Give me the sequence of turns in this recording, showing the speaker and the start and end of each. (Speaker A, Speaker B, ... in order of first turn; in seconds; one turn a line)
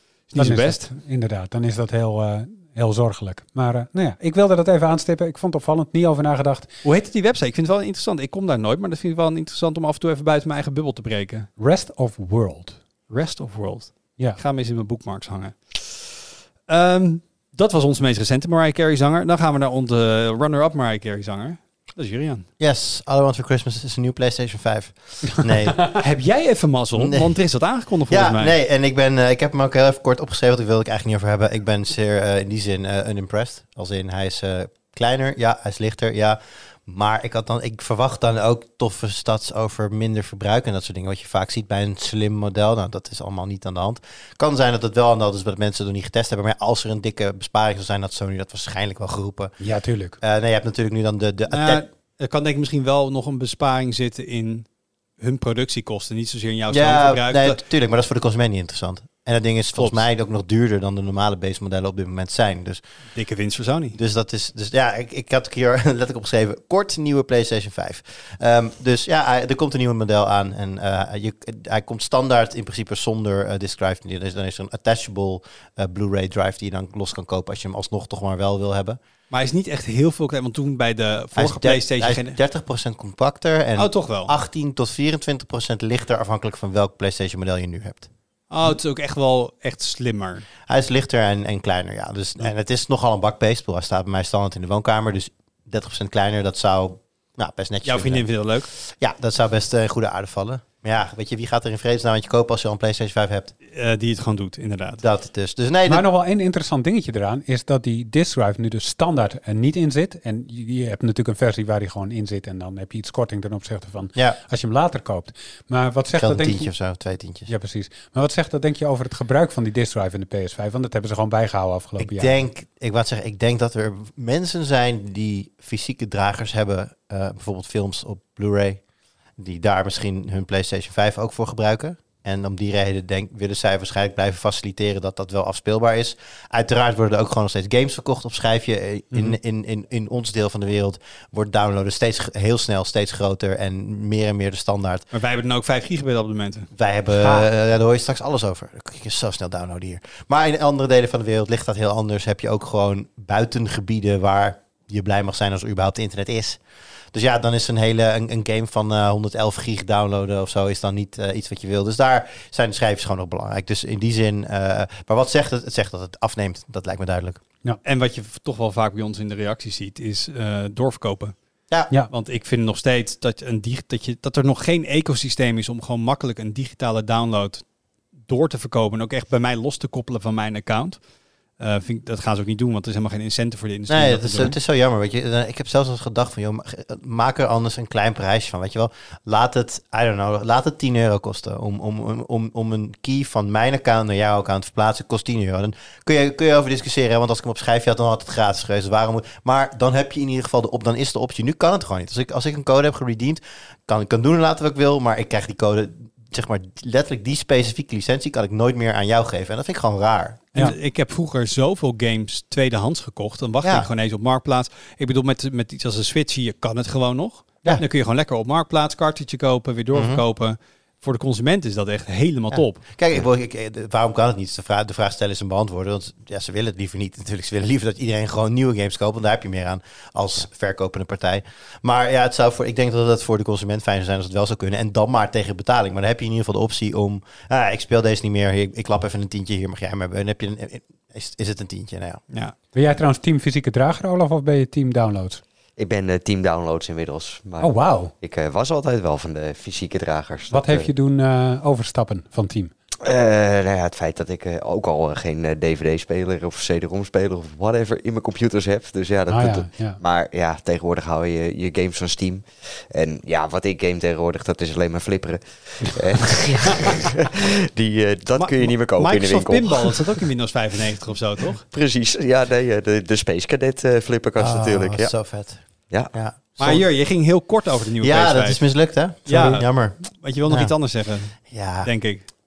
Speaker A: 0.3-0.9
Speaker B: 0.3-6.7
Speaker A: 6.8-11.5
Speaker B: 11.6-12.8
Speaker A: 13.1-22.5
Speaker C: 22.6-25.8
Speaker A: 26.0-28.5
Speaker C: 26.9-27.3
Speaker C: 28.1-49.5
Speaker B: 49.6-50.2
Speaker C: 50.2-51.8
Speaker A: 51.5-54.7
Speaker A: 55.2-57.6
Speaker C: 56.7-62.8
Speaker A: 59.7-60.0
Speaker A: 63.1-64.0
Speaker C: 63.9-79.0
Speaker A: 79.3-82.4
Speaker C: 81.3-88.1
Speaker A: 83.8-84.3
Speaker A: 88.5-90.5
Speaker C: 90.7-98.2
Speaker A: 97.8-98.7
Speaker C: 98.8-103.5
Speaker A: 103.7-105.0
Speaker C: 105.0-106.0
Speaker B: 105.9-116.7
Speaker C: 116.1-117.5
Speaker B: 117.5-122.3
Speaker C: 122.0-128.8
Speaker C: 129.4-145.1
Speaker A: 145.1-146.7
Speaker C: 146.7-156.6
Speaker B: 147.2-147.5
Speaker C: 157.1-167.4
Speaker A: 167.8-171.3
Speaker A: 172.1-177.7
Speaker A: 178.3-181.0
Speaker A: 181.6-184.6
Speaker C: 183.9-210.4
Speaker A: 210.5-222.9
Speaker C: 213.6-213.9
Speaker C: 219.9-220.2
Speaker C: 222.6-242.2
Speaker B: 242.7-245.4
Speaker D: 245.8-250.9
Speaker B: 247.6-248.1
Speaker B: 250.5-252.7
Speaker D: 253.0-270.0
Speaker B: 259.3-260.0
Speaker A: 268.4-271.6
Speaker D: 271.7-275.1
Speaker C: 274.4-276.9
Speaker A: 276.6-278.6
Speaker C: 278.0-280.0
Speaker A: 279.3-282.2
Speaker B: 279.3-279.6
Speaker C: 280.5-280.7
Speaker C: 281.5-281.9